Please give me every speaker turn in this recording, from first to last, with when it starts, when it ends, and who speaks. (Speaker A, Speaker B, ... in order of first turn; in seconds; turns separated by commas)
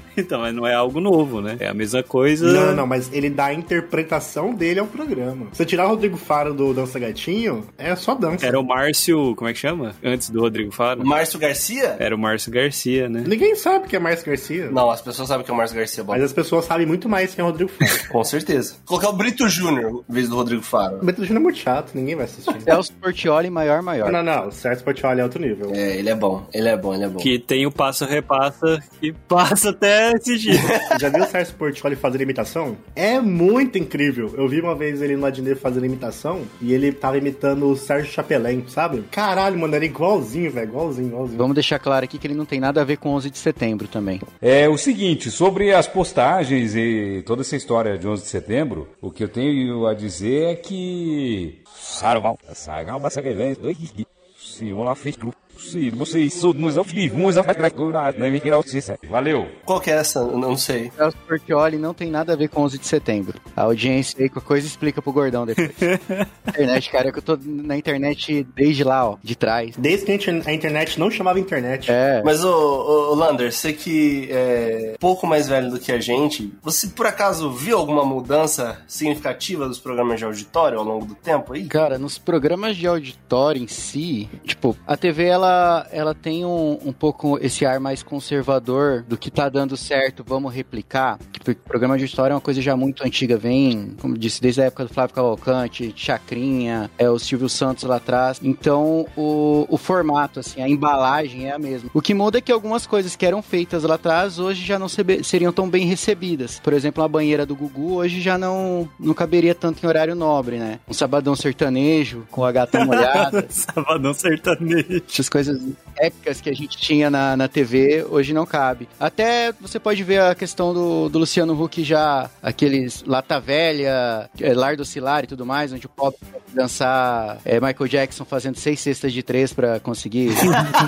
Speaker A: 0.1-2.8, Speaker B: 2.4-8.6, Speaker A: 8.4-11.1, Speaker C: 11.0-12.0, Speaker A: 12.0-13.3, Speaker B: 13.2-14.8, Speaker C: 14.7-16.2, Speaker B: 16.1-18.0, Speaker C: 18.1-21.1, Speaker B: 21.0-22.8, Speaker D: 22.6-24.2, Speaker B: 24.0-25.8, Speaker C: 25.7-27.3, Speaker A: 27.2-30.8, Speaker C: 30.6-30.9, Speaker B: 30.8-41.5, Speaker D: 41.4-44.2, Speaker E: 44.4-59.5, Speaker C: 59.6-60.9, Speaker D: 61.0-65.8, Speaker A: 65.8-66.3, Speaker D: 66.5-69.8, Speaker B: 69.8-71.9, Speaker D: 71.9-72.3, Speaker C: 72.2-81.7, Speaker D: 81.7-113.5, Speaker A: 112.7-115.0, Speaker D: 115.1-130.6